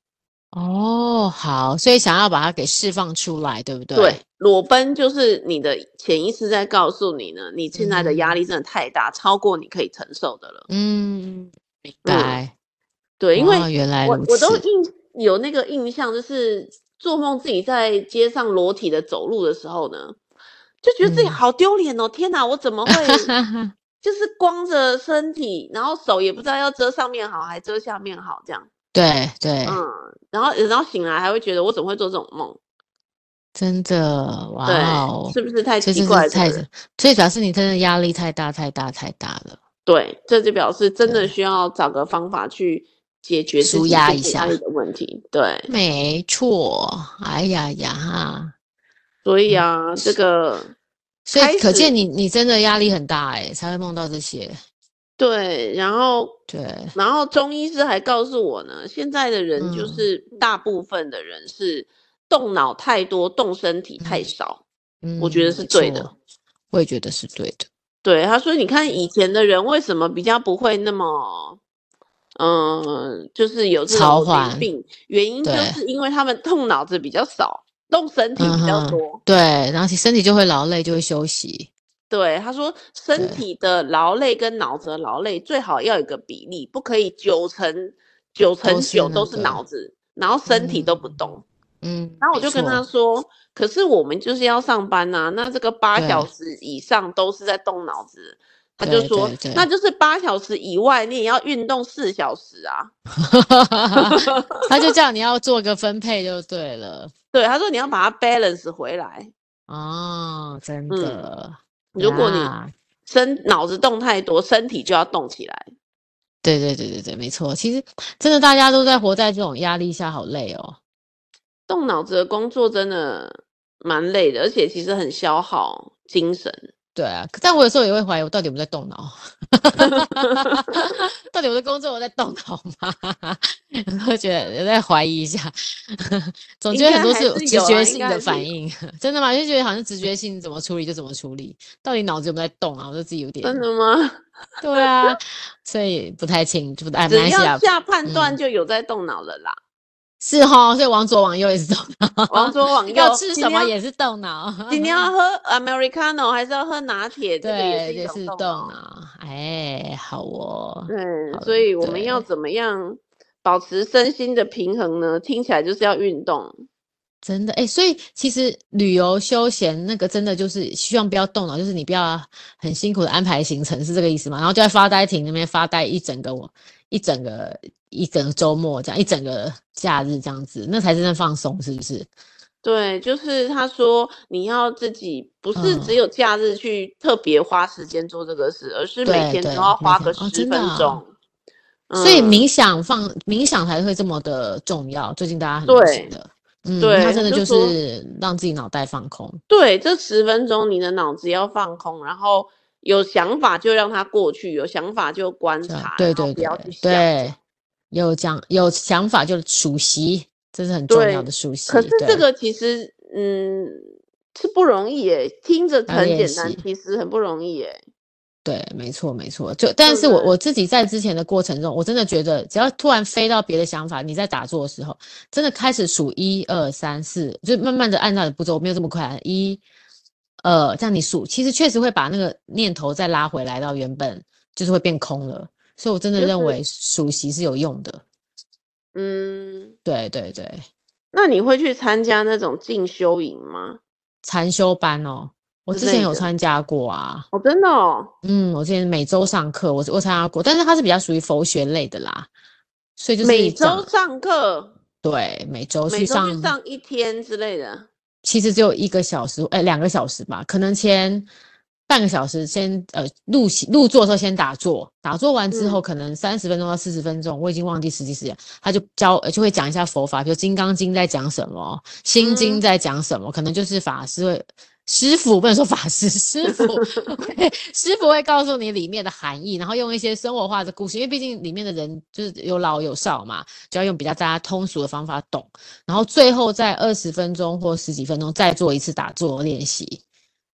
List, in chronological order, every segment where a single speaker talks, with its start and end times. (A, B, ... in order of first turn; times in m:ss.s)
0:00.5-0:04.2 A
0:04.0-0:10.6 B
0:07.8-0:08.4 A
0:10.7-0:11.5 A
0:12.0-0:12.5 A
0:12.0-0:12.4 B
0:13.2-0:20.2 B
0:13.4-0:14.6 A
0:20.8-0:23.3 B
0:21.0-0:21.4 A
0:22.9-0:23.7 A
0:24.0-0:28.7 B
0:28.9-0:29.8 A
0:29.7-0:32.6 B
0:33.6-0:39.6 A
0:34.6-0:36.6 B
0:39.9-0:45.7 B
0:41.1-0:41.3 A
0:43.6-0:44.6 A
0:45.7-0:48.5 A
0:49.2-0:50.7 B
0:49.5-0:50.2 A
0:51.3-0:54.6 A
0:51.4-0:51.9 B
0:55.2-0:56.4 B
0:56.5-0:56.9 A
0:57.0-1:04.6 B
0:59.6-1:00.1 A
1:04.0-1:04.2 A
1:05.0-1:06.1 A
1:05.2-1:06.1 B
1:06.7-1:07.7 A
1:08.0-1:11.6 B
1:12.4-1:19.2 B
1:13.9-1:14.7 A
1:15.4-1:15.8 A
1:18.4-1:21.7 A
1:22.1-1:31.4 B
1:23.2-1:23.4 A
1:28.6-1:29.6 A
1:30.5-1:31.2 A
1:31.8-1:32.8 A
1:32.2-1:42.9 B
1:36.0-1:36.3 A
1:38.8-1:39.7 A
1:43.2-1:47.1 A
1:44.0-1:44.9 B
1:47.3-1:49.3 B
1:49.7-1:52.7 A
1:50.9-1:51.2 B
1:52.0-1:52.5 B
1:53.1-1:55.7 B
1:56.4-2:00.8 A
2:01.7-2:06.7 B
2:07.0-2:23.6 A
2:09.8-2:10.8 B
2:16.7-2:18.5 B
2:23.4-2:24.2 B
2:24.6-2:28.4 A
2:24.8-2:25.2 B
2:27.1-2:29.6 B
2:30.2-2:35.1 A
2:32.3-2:33.7 B
2:34.7-2:38.7 B
2:37.4-2:42.2 A
2:40.9-2:46.6 B
2:47.2-3:02.1 A
3:02.6-3:11.1 B
3:05.6-3:06.0 A
3:09.0-3:11.0 A
3:11.9-3:12.5 B
3:12.0-3:19.4 A
3:15.7-3:16.1 B
3:16.8-3:17.8 B
3:19.5-3:27.3 B
3:25.7-3:27.4 A
3:27.9-3:32.2 A
3:30.9-3:37.8 B
3:35.9-3:36.6 A
3:38.4-3:49.6 A
3:39.8-3:40.3 B
3:50.4-3:58.0 A
3:56.2-3:56.6 B
3:59.0-3:59.7 B
3:59.8-4:00.6 A
4:01.1-4:03.8 B
4:04.2-4:07.3 A
4:05.7-4:06.3 B
4:07.3-4:08.1 B
4:08.2-4:12.3 A
4:13.0-4:13.9 A
4:13.2-4:14.7 B
4:15.0-4:16.5 A
4:15.9-4:17.9 B
4:18.2-4:21.3 A
4:21.9-4:50.0 A
4:25.5-4:25.8 B
4:32.2-4:32.6 B